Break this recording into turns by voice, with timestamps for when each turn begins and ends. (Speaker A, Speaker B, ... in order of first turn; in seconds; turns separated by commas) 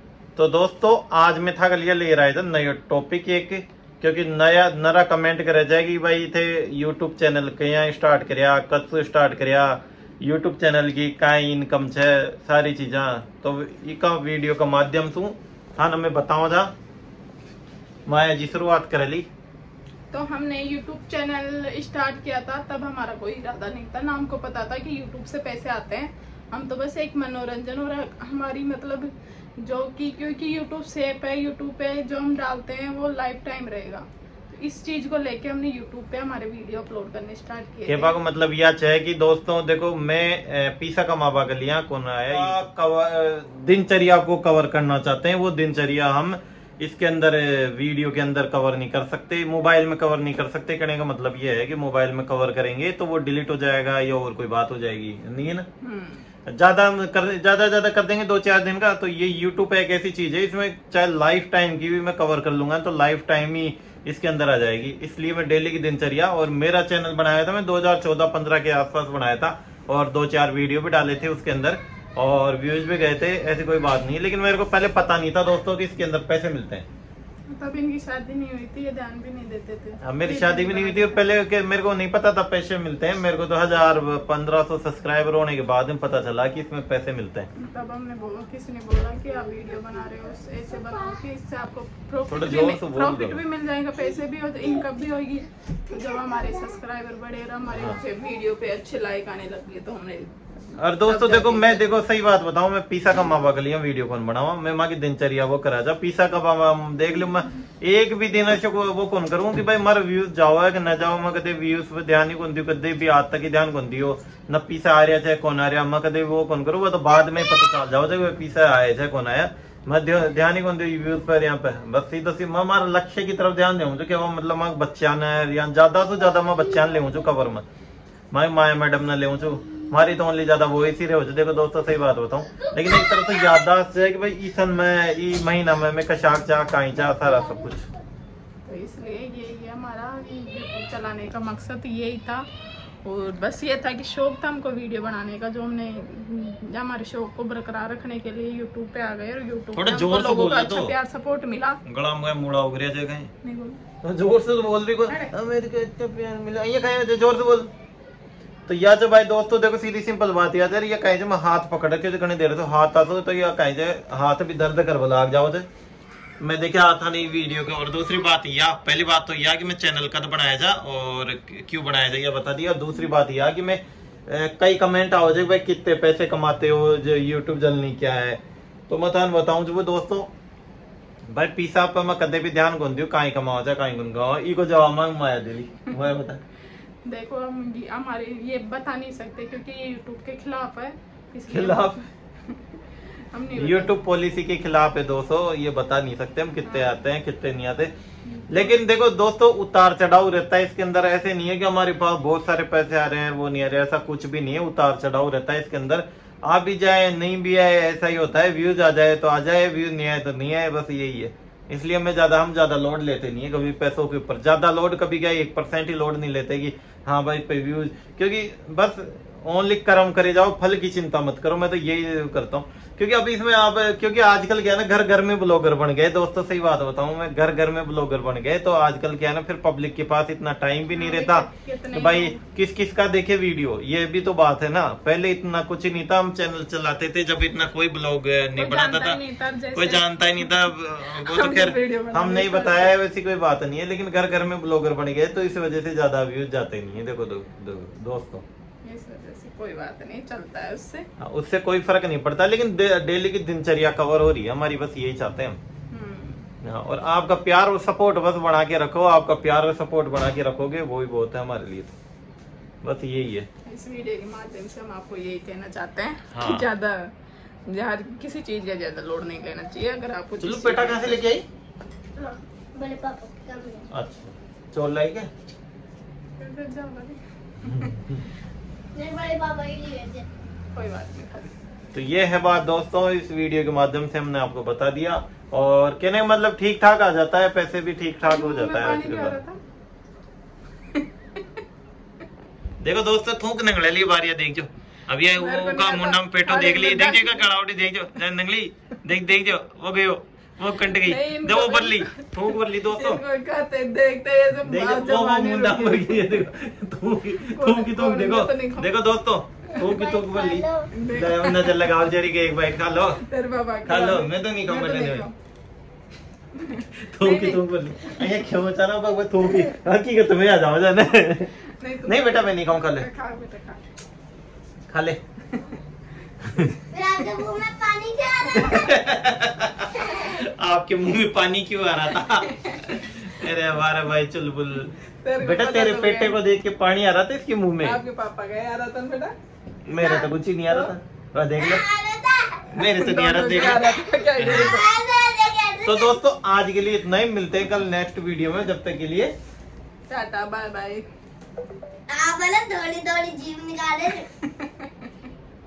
Speaker A: 0.4-16.7, Speaker A: 18.1-19.3, Speaker B: 20.1-38.2, Speaker A: 37.9-55.7, Speaker B: 55.8-56.2, Speaker A: 56.5-76.8, Speaker B: 77.5-81.2, Speaker A: 80.0-87.5, Speaker B: 87.6-100.3, Speaker A: 92.3-93.4, Speaker A: 97.7-98.0, Speaker A: 100.8-127.7, Speaker B: 101.0-101.8, Speaker A: 128.3-137.8, Speaker B: 138.7-142.5, Speaker B: 143.0-151.8, Speaker A: 149.8-150.9, Speaker A: 151.9-153.3, Speaker B: 153.4-153.8, Speaker A: 154.0-157.7, Speaker A: 158.7-165.7, Speaker A: 166.4-180.3, Speaker A: 181.3-186.4, Speaker B: 187.1-192.6, Speaker A: 191.5-192.0, Speaker B: 193.3-193.9, Speaker A: 193.6-197.9, Speaker B: 196.7-197.0, Speaker B: 198.3-198.8, Speaker A: 198.5-239.2, Speaker B: 230.9-232.4, Speaker B: 238.6-243.0, Speaker A: 239.7-248.4, Speaker B: 248.8-251.1, Speaker A: 251.2-255.6, Speaker B: 255.9-256.5, Speaker A: 256.6-261.9, Speaker A: 262.8-263.5, Speaker B: 263.7-267.1, Speaker A: 266.3-266.7, Speaker B: 267.7-271.2, Speaker A: 270.4-271.4, Speaker C: 272.2-273.9, Speaker A: 273.9-275.3, Speaker B: 276.4-278.0, Speaker A: 277.7-278.2, Speaker C: 278.9-280.2, Speaker B: 280.7-281.6, Speaker A: 281.9-289.4, Speaker B: 288.2-289.6, Speaker B: 290.9-291.4, Speaker A: 292.8-303.2, Speaker B: 295.4-297.5, Speaker B: 300.8-306.3, Speaker A: 304.6-313.2, Speaker B: 307.5-308.9, Speaker C: 309.8-310.9, Speaker B: 310.9-311.9, Speaker B: 313.2-315.3, Speaker A: 313.9-315.3, Speaker B: 316.6-317.6, Speaker A: 317.0-321.5, Speaker B: 321.7-323.9, Speaker A: 322.1-323.1, Speaker A: 324.9-325.2, Speaker A: 326.4-326.7, Speaker B: 326.5-326.8, Speaker C: 326.9-328.8, Speaker A: 328.5-338.0, Speaker B: 332.5-332.8, Speaker B: 335.2-336.4, Speaker B: 337.8-339.4, Speaker A: 339.9-341.8, Speaker C: 340.0-340.3, Speaker C: 341.6-342.7, Speaker A: 342.7-344.8, Speaker B: 342.8-344.9, Speaker C: 344.4-346.2, Speaker A: 345.9-349.3, Speaker B: 350.1-351.1, Speaker C: 352.1-354.3, Speaker B: 354.4-355.1